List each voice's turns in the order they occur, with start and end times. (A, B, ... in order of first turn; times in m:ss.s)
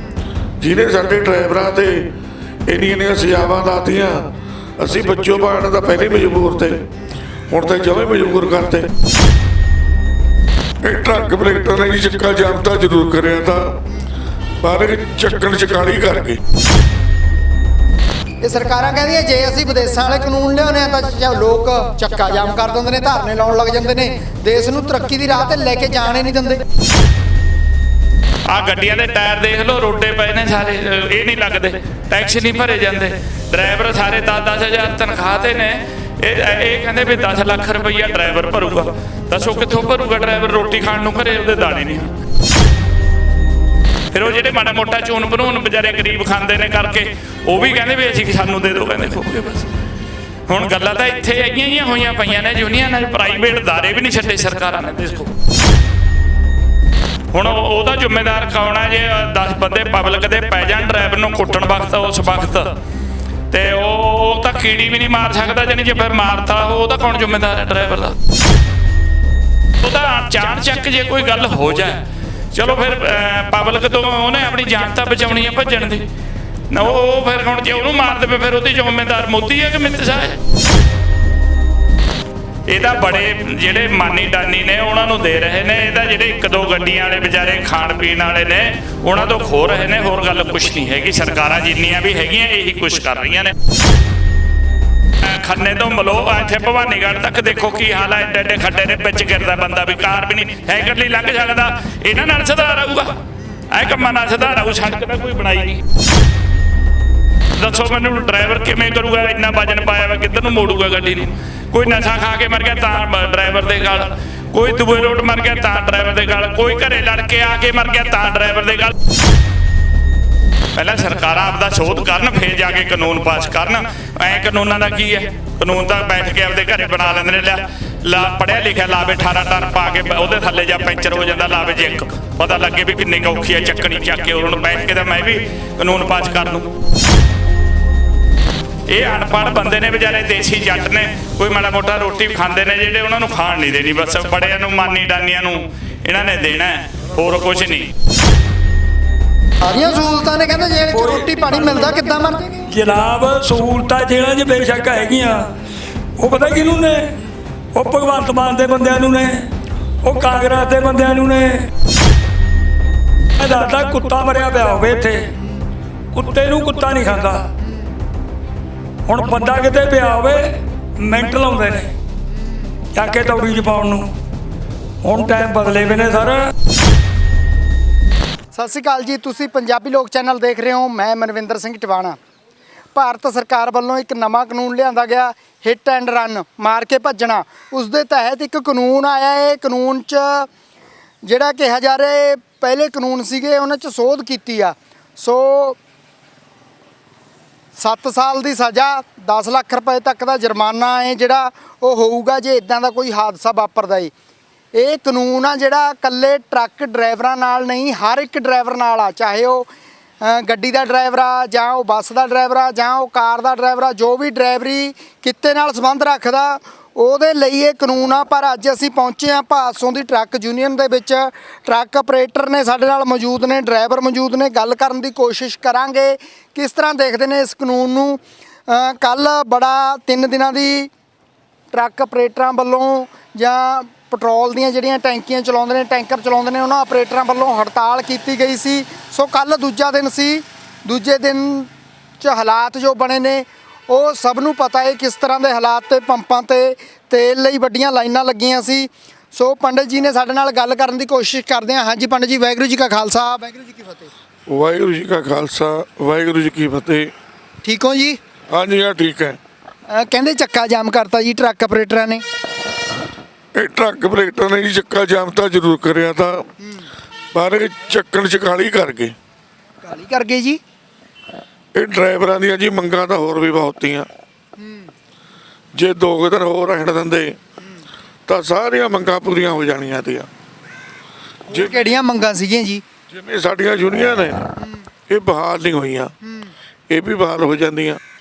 0:00.6-0:02.1 A
0:02.7-0:06.8 A
0:07.5-0:08.9 A
0:10.8-0:13.8 A
0:14.6-0:16.4 A
0:18.4-0:26.6 B
0:28.4-0:42.1 C
0:44.1-0:49.7 C
0:50.5-0:55.3 C
0:57.3-1:02.7 C
1:03.5-1:08.2 C
1:09.8-1:12.0 C
1:12.5-1:16.0 C
1:16.7-1:20.4 C
1:22.7-1:33.5 C
1:35.2-1:43.1 C
1:43.7-1:45.8 C
1:47.5-1:58.9 C
2:00.7-2:16.7 C
2:18.9-2:27.9 C
2:29.6-2:32.7 B
2:30.9-2:31.3 D
2:32.7-2:35.5 D
2:36.2-2:37.2 D
2:37.7-2:39.5 D
2:40.0-2:41.7 D
2:43.4-2:45.3 D
2:46.1-2:47.5 D
2:49.1-2:51.9 D
2:52.9-2:54.1 D
2:55.0-2:56.5 D
2:58.5-3:02.2 B
3:02.9-3:10.5 B
3:11.2-3:15.8 B
3:17.8-3:24.1 B
3:24.7-3:29.7 B
3:30.2-3:50.9 B
3:51.7-4:14.1 B
4:14.5-4:17.1 A
4:17.6-4:18.2 B
4:18.5-4:19.4 A
4:19.9-4:22.2 B
4:23.5-4:26.5 A
4:26.6-4:26.9 B
4:27.3-4:29.1 A
4:29.8-4:30.6 B
4:31.7-4:34.1 A
4:34.6-4:34.9 B
4:35.7-4:37.4 A
4:38.3-4:40.3 A
4:41.5-4:42.8 B
4:41.5-4:41.9 A
4:43.1-4:44.5 A
4:44.6-4:44.8 B
4:45.1-4:46.1 A
4:46.2-4:46.5 B
4:46.9-4:48.0 A